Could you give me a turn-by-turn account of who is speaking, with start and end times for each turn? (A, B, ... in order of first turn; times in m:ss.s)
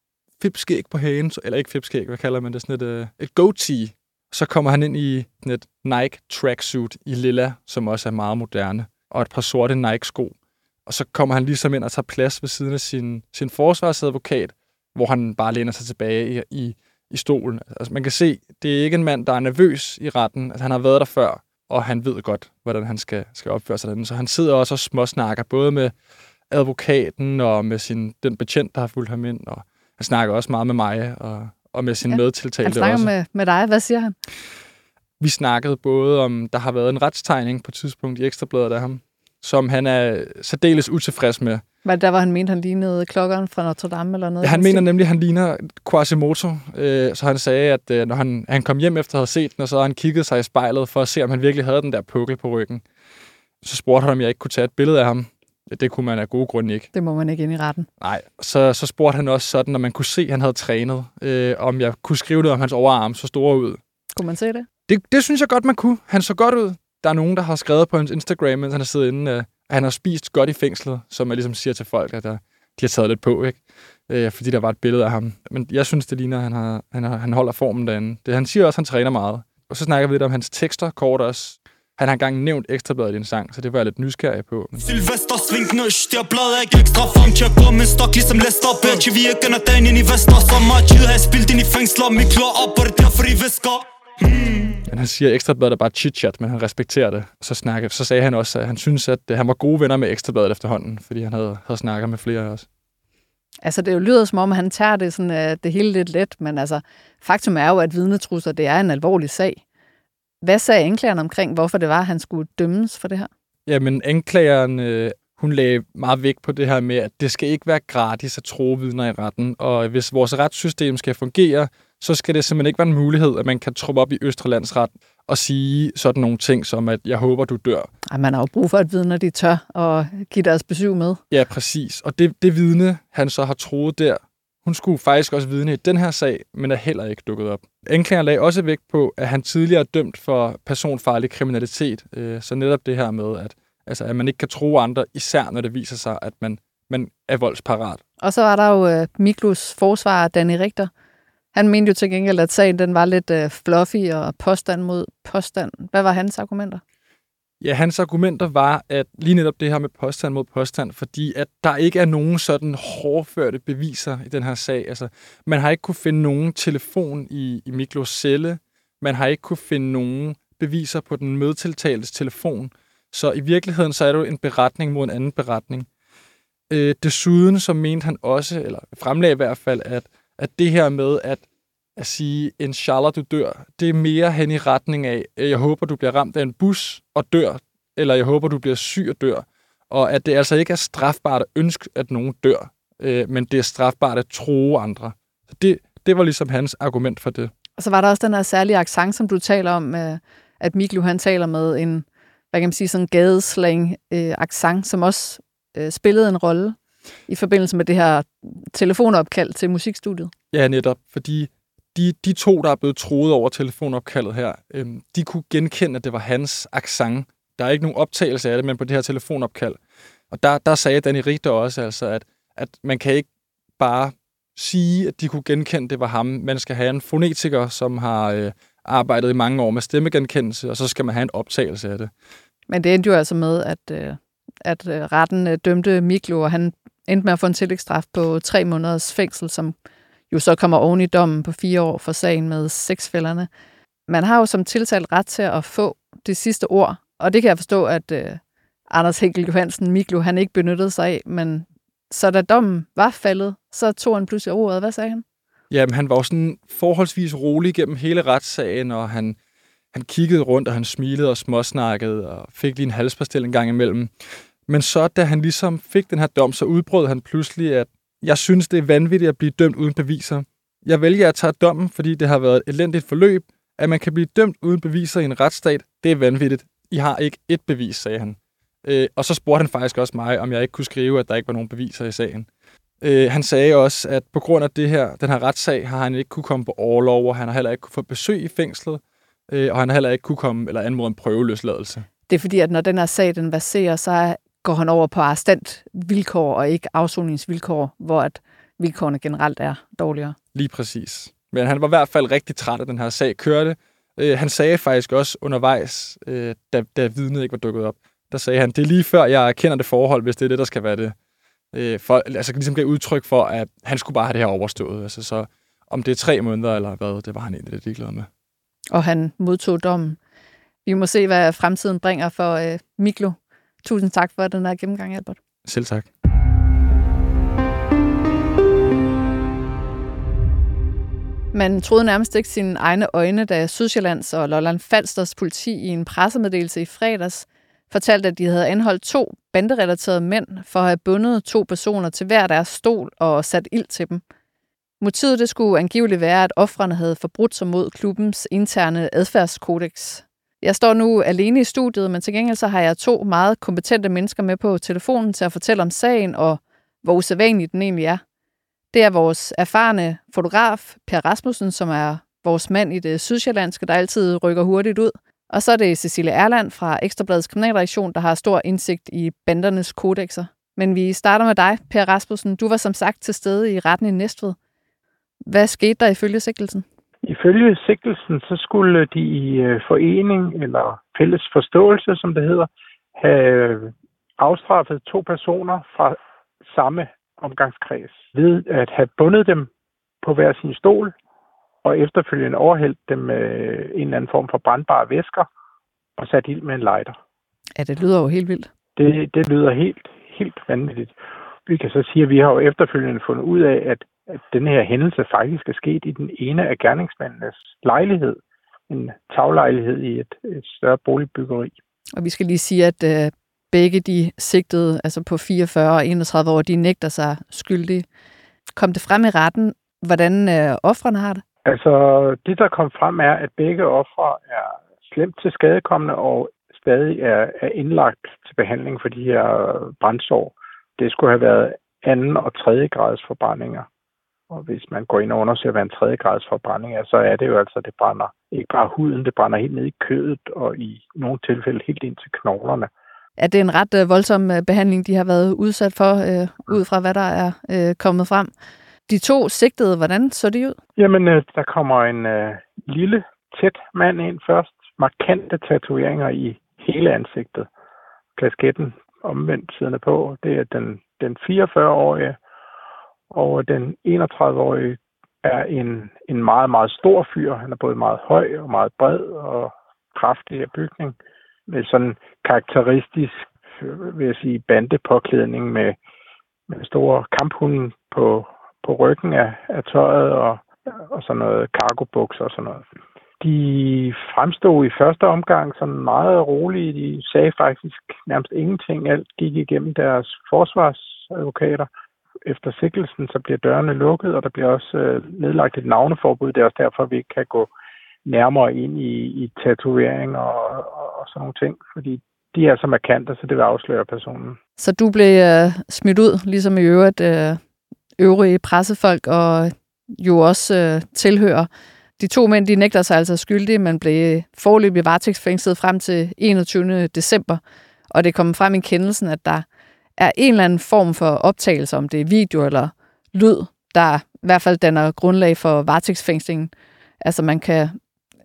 0:00.4-0:10.3 A
0:10.8-0:25.9 A
0:26.5-0:33.1 A
0:32.1-0:34.1 B
0:35.2-0:41.6 A
0:41.8-0:44.8 B
0:44.4-0:52.8 A
0:53.6-0:56.9 A
0:56.9-0:57.9 B
0:58.0-1:03.8 A
1:04.1-1:04.7 B
1:04.9-1:24.8 A
1:24.8-1:34.8 C
1:34.9-1:42.6 A
1:43.6-1:49.6 B
1:50.4-1:53.3 B
1:53.6-2:07.9 A
2:08.1-2:11.2 B
2:11.3-2:28.0 A
2:28.2-2:30.9 B
2:31.5-2:36.8 B
2:37.6-2:55.9 A
2:56.7-3:01.4 A
3:02.0-3:17.5 A
3:17.8-3:26.8 B
3:27.3-3:30.3 B
3:30.5-3:39.8 A
3:40.3-3:43.3 A
3:43.8-3:52.1 A
3:52.7-3:59.7 B
4:00.3-4:03.5 B
4:04.1-4:15.2 B
4:15.7-4:19.4 A
4:19.9-4:24.1 A
4:24.7-4:42.5 A
4:43.0-4:52.0 A
4:52.3-5:00.4 B
5:00.5-5:11.1 A
5:11.7-5:18.3 A
5:18.9-5:20.2 B
5:20.8-5:25.4 B
5:25.6-5:26.1 A
5:31.5-5:44.2 B
5:45.0-5:58.2 B
5:58.9-6:14.6 B
6:15.4-6:16.8 B
6:17.2-6:26.2 D
6:26.7-6:29.7 D
6:30.2-6:31.1 D
6:31.8-6:35.5 D
6:36.2-6:37.2 D
6:37.8-6:38.7 B
6:39.0-6:41.1 D
6:41.6-6:51.7 D
6:52.2-6:58.0 B
6:58.7-7:01.4 B
7:01.6-7:13.9 D
7:14.5-7:22.9 D
7:23.4-7:28.5 B
7:29.1-7:30.8 B
7:31.0-7:37.7 D
7:38.4-7:42.4 D
7:43.3-7:51.2 D
7:51.7-7:56.0 D
7:56.7-8:02.8 D
8:03.4-8:11.9 D
8:12.4-8:17.7 D
8:18.2-8:24.6 D
8:24.8-8:27.6 B
8:28.2-8:31.7 B
8:32.2-8:37.6 B
8:38.1-8:39.6 B
8:40.2-8:48.0 B